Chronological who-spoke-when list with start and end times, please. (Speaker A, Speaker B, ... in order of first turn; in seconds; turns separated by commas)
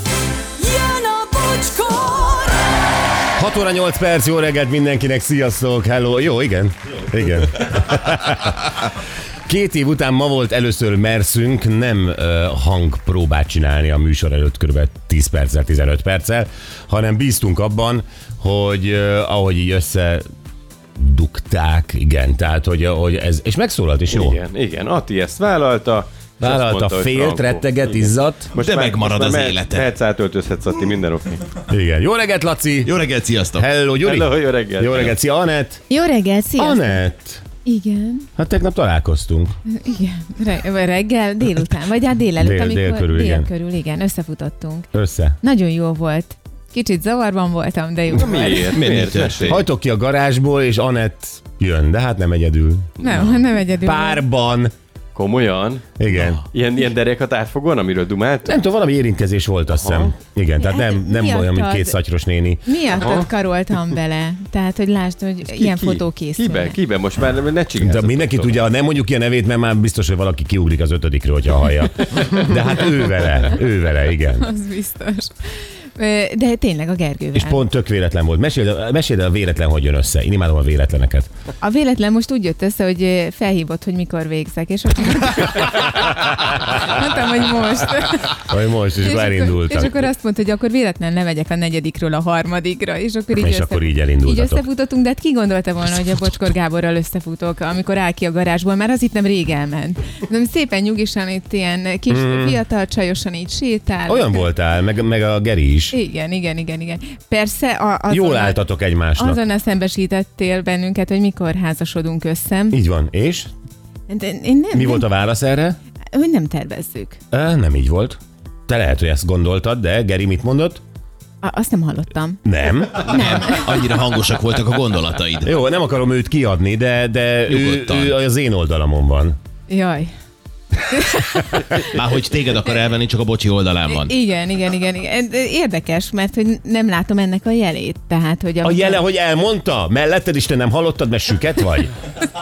Speaker A: 0.6-2.9, Speaker B: 3.4-8.9, Speaker B: 9.4-20.2, Speaker B: 21.0-24.4, Speaker C: 24.1-31.6, Speaker B: 26.4-28.5, Speaker D: 28.6-29.9, Speaker B: 31.7-32.9, Speaker D: 32.8-33.7, Speaker B: 33.5-35.8, Speaker C: 34.0-35.1, Speaker E: 35.9-37.0, Speaker B: 36.6-37.4, Speaker E: 37.6-38.3, Speaker B: 38.4-39.5, Speaker E: 39.7-44.9, Speaker B: 42.4-43.5, Speaker B: 44.9-45.4, Speaker E: 45.4-48.8, Speaker C: 48.1-49.6, Speaker D: 48.7-49.6, Speaker B: 49.5-53.0, Speaker C: 53.0-53.3, Speaker E: 53.0-54.2, Speaker B: 53.8-54.7, Speaker C: 55.1-55.9, Speaker B: 56.0-56.4, Speaker C: 56.5-58.6, Speaker B: 58.4-62.6, Speaker C: 59.7-60.1, Speaker E: 60.6-62.0, Speaker E: 62.6-66.8, Speaker C: 65.5-68.6, Speaker B: 67.8-74.5, Speaker E: 74.3-77.6, Speaker B: 77.3-81.3, Speaker E: 81.6-104.5, Speaker B: 88.3-90.1, Speaker B: 93.3-94.6, Speaker B: 102.1-102.6, Speaker B: 104.1-106.0, Speaker E: 105.9-108.6, Speaker B: 108.1-109.4, Speaker E: 109.2-112.8, Speaker B: 112.7-113.5, Speaker E: 114.1-115.1, Speaker B: 114.7-115.8, Speaker E: 116.1-117.2, Speaker B: 117.3-120.8, Speaker E: 121.4-123.7, Speaker B: 122.4-123.3, Speaker D: 123.0-125.5, Speaker B: 125.4-129.3, Speaker D: 127.5-128.2, Speaker E: 129.7-130.1, Speaker E: 130.9-131.5, Speaker D: 131.8-134.1, Speaker E: 133.9-139.0, Speaker B: 138.6-141.9